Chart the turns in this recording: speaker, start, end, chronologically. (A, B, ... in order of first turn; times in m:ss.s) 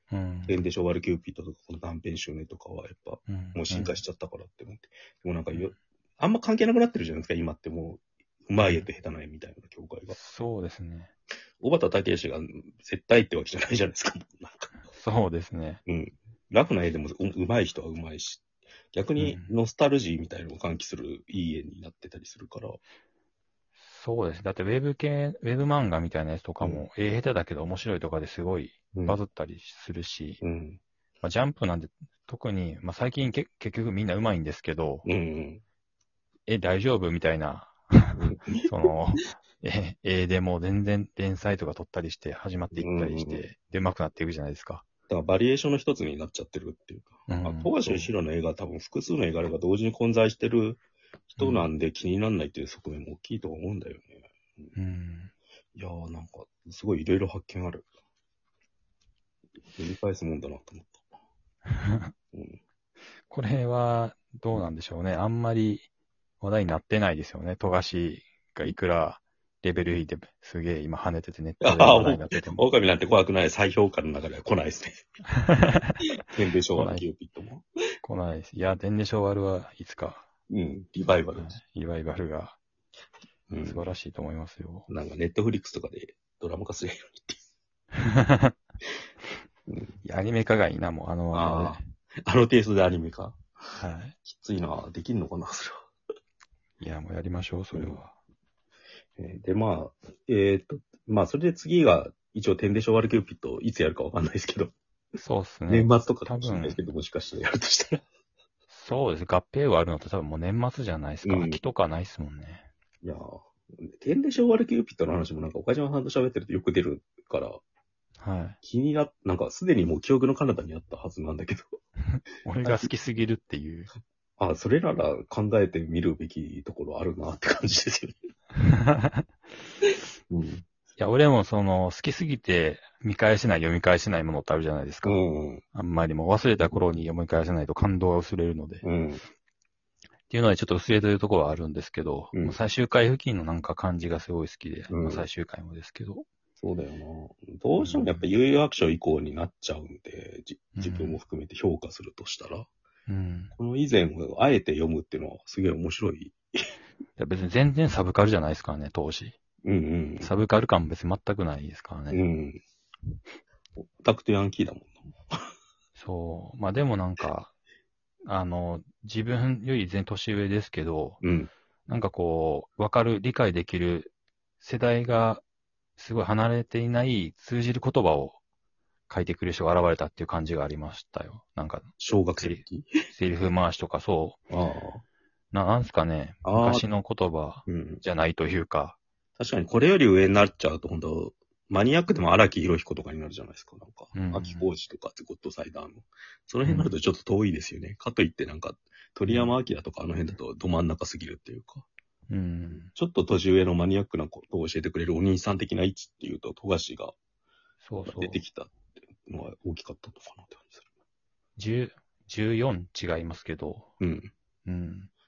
0:00.1-0:00.6 A
0:00.5-0:10.2 B
0:03.3-0:04.0 A
0:08.6-0:08.9 A
0:10.1-0:11.1 A
0:11.6-0:14.8 B
0:14.9-0:15.8 A
0:15.9-0:22.8 B
0:19.2-0:19.5 A
0:23.8-0:30.4 A
0:28.9-0:29.2 B
0:30.4-0:30.8 B
0:31.2-0:35.1 A
0:35.1-0:35.6 B
0:36.5-0:44.8 A
0:38.2-0:38.7 B
0:42.7-0:43.4 B
0:45.1-0:54.8 B
0:47.3-0:48.1 A
0:51.4-0:51.7 A
0:54.8-0:55.3 A
0:55.8-0:57.9 B
0:59.8-1:01.0 B
1:01.7-1:02.1 A
1:02.3-1:02.6 B
1:03.3-1:05.9 A
1:06.4-1:12.6 A
1:11.6-1:15.0 B
1:15.4-1:16.2 A
1:16.2-1:17.6 B
1:16.8-1:17.1 A
1:18.0-1:20.3 A
1:20.5-1:21.6 B
1:21.4-1:22.6 A
1:23.5-1:23.8 B
1:23.6-1:24.9 A
1:24.9-1:27.4 B
1:28.0-1:28.5 A
1:29.7-1:30.0 B
1:30.0-1:31.8 A
1:31.3-1:33.4 B
1:33.8-1:34.2 A
1:34.2-1:35.9 B
1:36.8-1:38.2 A
1:37.7-1:38.0 B
1:39.2-1:44.7 B
1:45.2-1:46.8 A
1:45.7-1:48.0 B
1:48.7-1:52.7 A
1:51.2-1:51.6 B
1:53.0-1:57.6 B
1:58.2-1:58.6 A
1:58.6-2:01.7 B
2:02.1-2:03.9 A
2:04.4-2:08.2 B
2:08.6-2:09.2 A
2:10.3-2:10.6 B
2:11.0-2:15.2 A
2:15.0-2:15.6 B
2:15.8-2:18.9 A
2:18.8-2:19.2 B
2:20.3-2:26.2 A
2:22.3-2:22.6 B
2:24.9-2:25.3 B
2:26.6-2:32.7 B
2:27.8-2:28.2 A
2:30.8-2:31.2 A
2:33.1-2:33.5 A
2:33.5-2:36.7 B
2:37.2-2:39.4 A
2:39.6-2:40.3 B
2:40.2-2:42.2 A
2:42.1-2:42.6 B
2:43.8-2:45.5 B
2:46.0-2:47.5 A
2:48.3-2:51.2 A
2:51.2-2:51.5 B
2:51.9-2:55.4 A
2:56.0-2:58.4 A
2:59.1-3:04.4 A
3:02.0-3:03.1 B
3:04.5-3:05.0 B
3:05.5-3:09.0 A
3:06.4-3:06.9 B
3:07.7-3:08.0 B
3:09.4-3:21.9 B
3:14.2-3:14.7 A
3:16.6-3:16.9 A
3:19.3-3:19.5 A
3:22.3-3:22.9 A
3:22.8-3:27.2 B
3:27.8-3:28.4 A
3:28.0-3:30.9 B
3:31.6-3:33.9 A
3:34.0-3:34.3 B
3:34.7-3:35.1 A